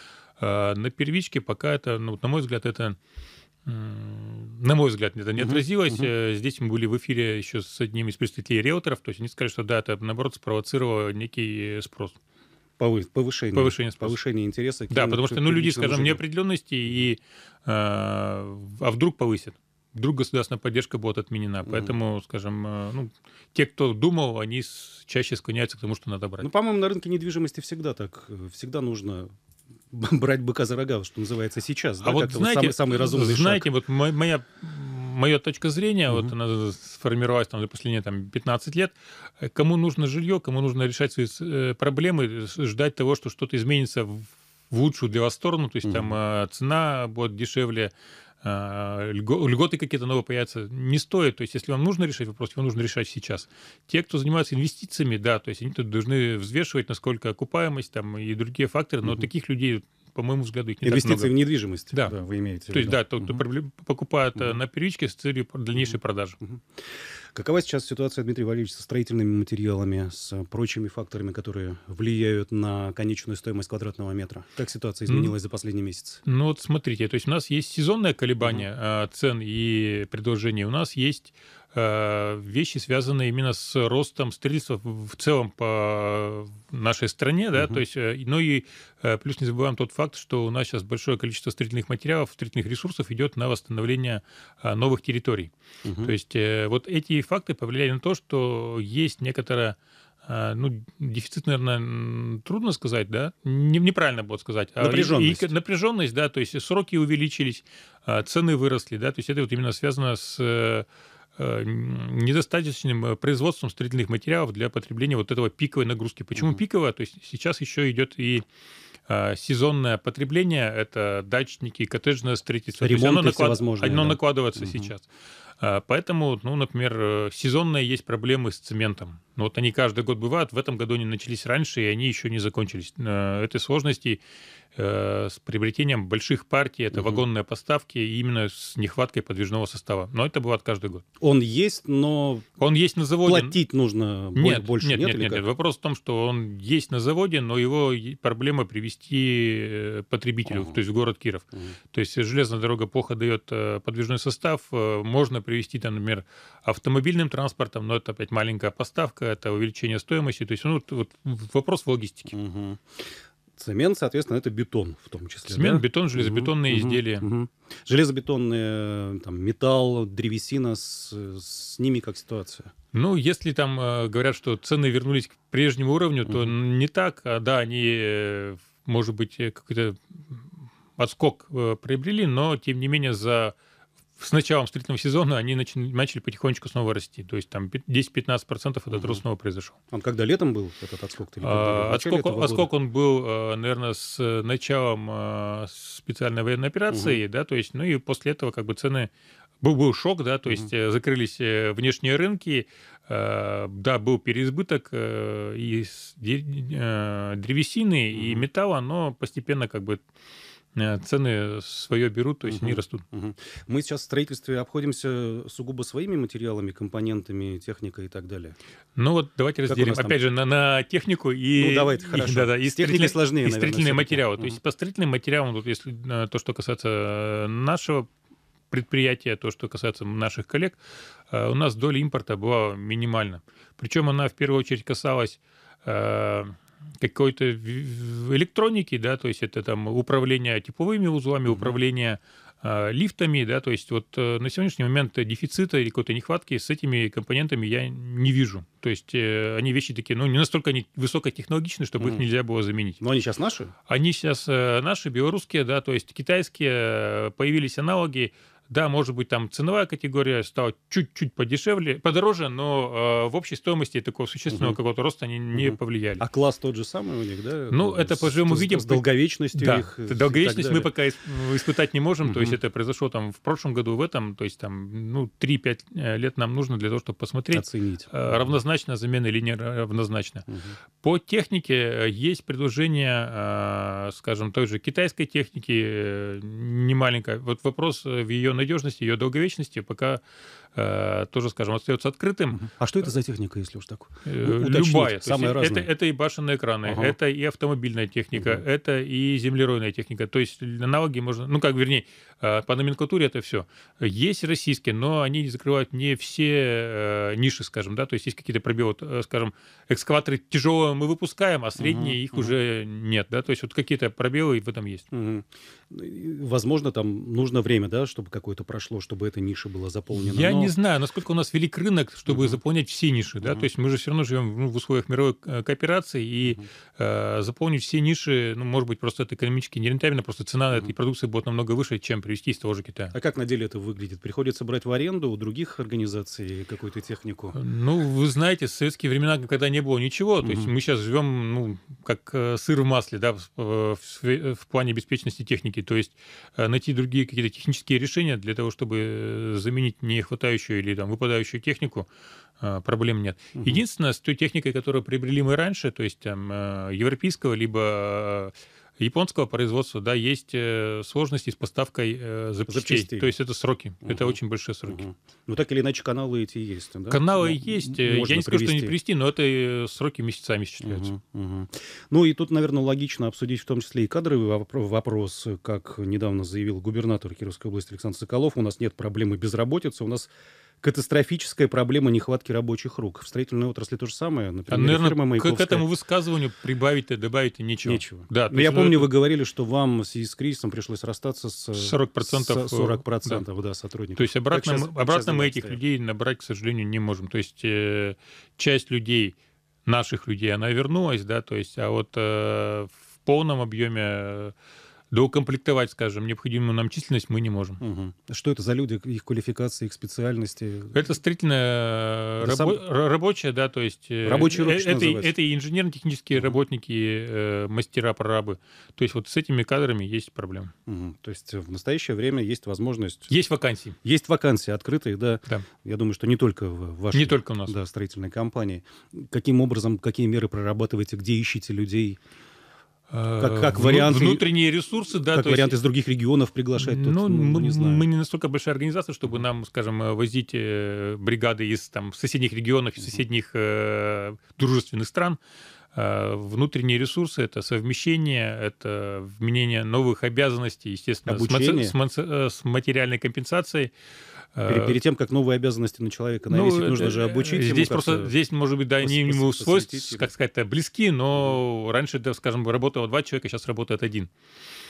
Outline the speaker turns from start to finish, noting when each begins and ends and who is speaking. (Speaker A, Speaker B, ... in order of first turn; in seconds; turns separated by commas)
Speaker A: 0.4-3.0, Speaker A: 3.6-12.2, Speaker B: 5.4-6.1, Speaker B: 12.8-16.2, Speaker A: 13.5-14.2, Speaker A: 14.9-26.5, Speaker B: 21.7-21.9, Speaker B: 26.4-29.3, Speaker B: 29.9-33.7, Speaker A: 32.0-61.3, Speaker B: 45.8-46.2, Speaker B: 60.8-63.4, Speaker A: 62.7-66.4, Speaker B: 65.8-76.2, Speaker A: 76.3-95.5, Speaker B: 78.4-78.7, Speaker B: 87.6-87.8, Speaker B: 95.8-96.1, Speaker A: 96.0-110.9, Speaker B: 104.8-105.5, Speaker A: 111.4-118.5, Speaker A: 119.1-125.1, Speaker B: 122.8-124.9, Speaker A: 125.6-134.2, Speaker A: 134.8-141.0, Speaker B: 136.9-137.2, Speaker B: 141.2-142.5, Speaker A: 142.6-143.6, Speaker B: 143.2-145.4, Speaker A: 144.3-162.3, Speaker B: 150.5-150.8, Speaker B: 162.3-172.7, Speaker A: 165.5-167.3, Speaker A: 172.9-183.6, Speaker B: 176.3-176.6, Speaker A: 184.2-189.8, Speaker B: 188.9-189.2, Speaker B: 189.9-192.7, Speaker A: 191.4-199.1, Speaker B: 196.9-197.2, Speaker A: 199.6-210.0, Speaker B: 208.1-208.5, Speaker A: 210.8-213.1, Speaker B: 212.4-218.6, Speaker A: 219.0-228.1, Speaker B: 219.7-220.2, Speaker B: 221.6-224.6, Speaker A: 228.7-230.8, Speaker A: 231.3-253.0, Speaker B: 241.5-241.8, Speaker B: 252.0-252.2, Speaker B: 253.0-253.7, Speaker A: 253.9-266.2, Speaker B: 264.5-264.8, Speaker B: 265.5-270.9, Speaker A: 267.7-269.0, Speaker A: 269.6-280.5, Speaker B: 272.2-272.6, Speaker B: 277.5-278.6, Speaker B: 280.5-280.8, Speaker A: 281.0-290.2, Speaker A: 290.7-292.7, Speaker B: 292.6-295.9, Speaker A: 294.2-315.1, Speaker B: 296.9-297.1, Speaker B: 298.4-298.6, Speaker B: 311.8-312.6, Speaker B: 315.1-320.7, Speaker A: 320.1-333.1, Speaker B: 322.3-322.6, Speaker B: 323.4-323.7, Speaker B: 333.1-337.6, Speaker A: 337.5-352.1, Speaker B: 340.4-340.7, Speaker A: 352.6-365.1, Speaker B: 353.6-353.8, Speaker B: 362.7-363.3, Speaker B: 364.0-369.0, Speaker A: 367.1-371.1, Speaker B: 370.8-385.9, Speaker A: 384.7-389.1, Speaker B: 387.8-395.8, Speaker A: 391.8-393.4, Speaker A: 394.2-404.5, Speaker A: 405.1-407.8, Speaker B: 407.8-411.0, Speaker A: 410.9-420.7, Speaker B: 412.4-412.8, Speaker B: 414.2-415.3, Speaker B: 420.9-423.3, Speaker A: 423.3-424.0, Speaker B: 424.0-432.2, Speaker A: 427.1-427.8, Speaker A: 433.1-435.8, Speaker B: 433.4-434.4, Speaker B: 435.3-438.1, Speaker A: 436.8-445.4, Speaker A: 445.9-453.9, Speaker B: 451.3-451.9, Speaker A: 454.6-455.0, Speaker B: 454.7-458.3, Speaker A: 456.5-464.3, Speaker B: 459.0-460.3